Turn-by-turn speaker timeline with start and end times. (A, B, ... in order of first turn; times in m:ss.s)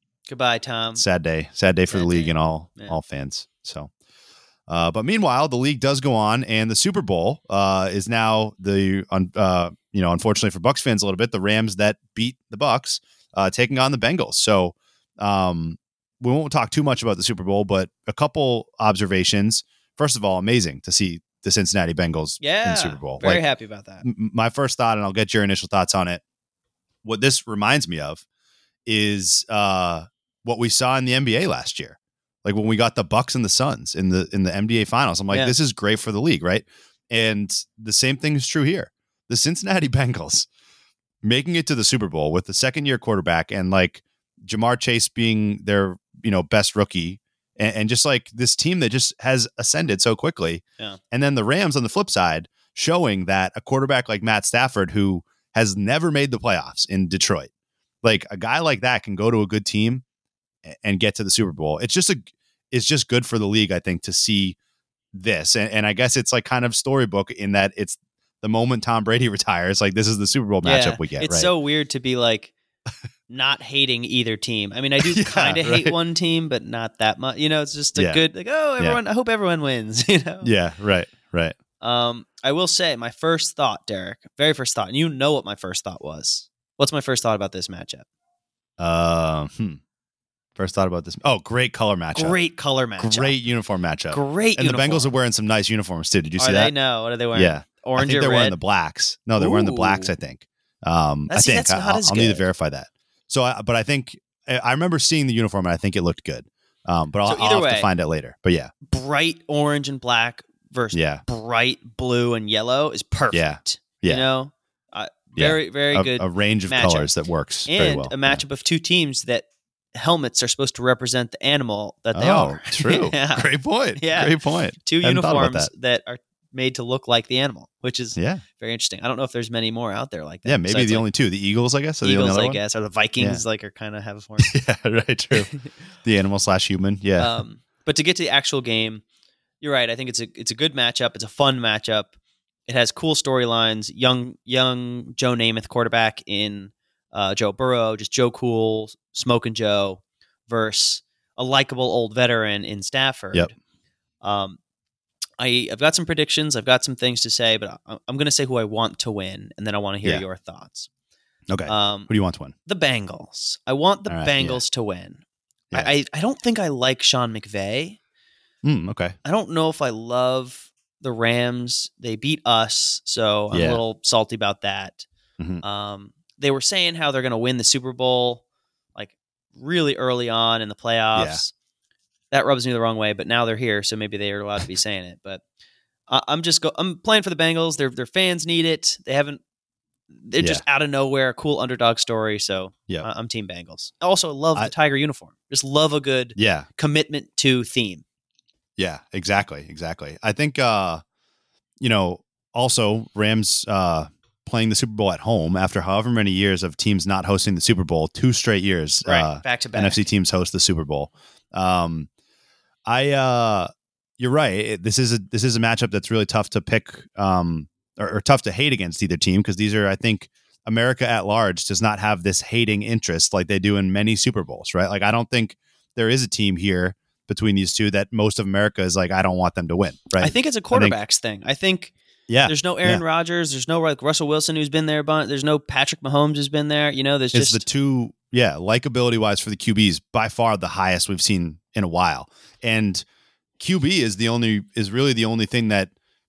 0:00.3-0:01.0 A
0:01.0-0:03.9 B
0:01.9-0:03.0 A
0:04.7-0:23.4 B
0:22.4-0:24.0 A
0:24.0-0:26.2 B
0:27.0-0:28.2 B
0:28.9-0:40.5 B
0:41.2-0:57.5 B
0:58.0-1:00.0 B
1:00.6-1:04.6 B
1:05.1-1:11.5 B
1:10.6-1:12.5 A
1:13.3-1:20.5 A
1:15.0-1:16.0 B
1:18.0-1:18.2 B
1:20.4-1:21.6 B
1:21.8-1:28.0 A
1:28.8-1:29.8 B
1:30.6-1:32.4 B
1:32.1-1:33.4 A
1:33.0-1:36.7 B
1:34.1-1:35.1 A
1:36.4-1:38.6 A
1:37.3-1:48.7 B
1:39.4-1:40.1 A
1:41.3-1:42.5 A
1:47.2-1:47.9 A
1:48.9-1:57.1 A
1:50.9-1:51.2 B
1:53.3-1:54.2 B
1:55.4-1:58.4 B
1:57.7-2:11.1 A
2:02.1-2:05.7 B
2:08.2-2:08.4 B
2:10.5-2:12.6 B
2:12.0-2:14.6 A
2:14.4-2:15.5 B
2:15.3-2:15.6 A
2:16.0-2:17.3 B
2:17.2-2:19.0 A
2:19.6-2:22.1 A
2:22.7-2:33.5 A
2:34.2-2:34.6 A
2:35.4-2:40.9 A
2:41.5-2:42.5 B
2:41.7-2:42.1 A
2:42.7-2:45.2 A
2:44.1-2:44.6 B
2:45.7-2:48.0 A
2:48.6-2:49.2 B
2:49.2-2:55.1 A
2:53.5-2:53.8 B
2:55.6-2:58.4 A
2:59.0-3:01.5 A
3:01.2-3:01.4 B
3:02.3-3:05.4 A
3:06.1-3:09.4 A
3:10.1-3:18.0 A
3:16.4-3:16.7 B
3:18.8-3:21.0 B
3:21.8-3:32.1 B
3:29.0-3:30.0 A
3:32.9-3:51.0 B
3:50.2-3:51.9 A
3:52.3-3:53.0 B
3:52.5-3:57.6 A
3:57.3-4:03.0 B
4:03.6-4:05.9 B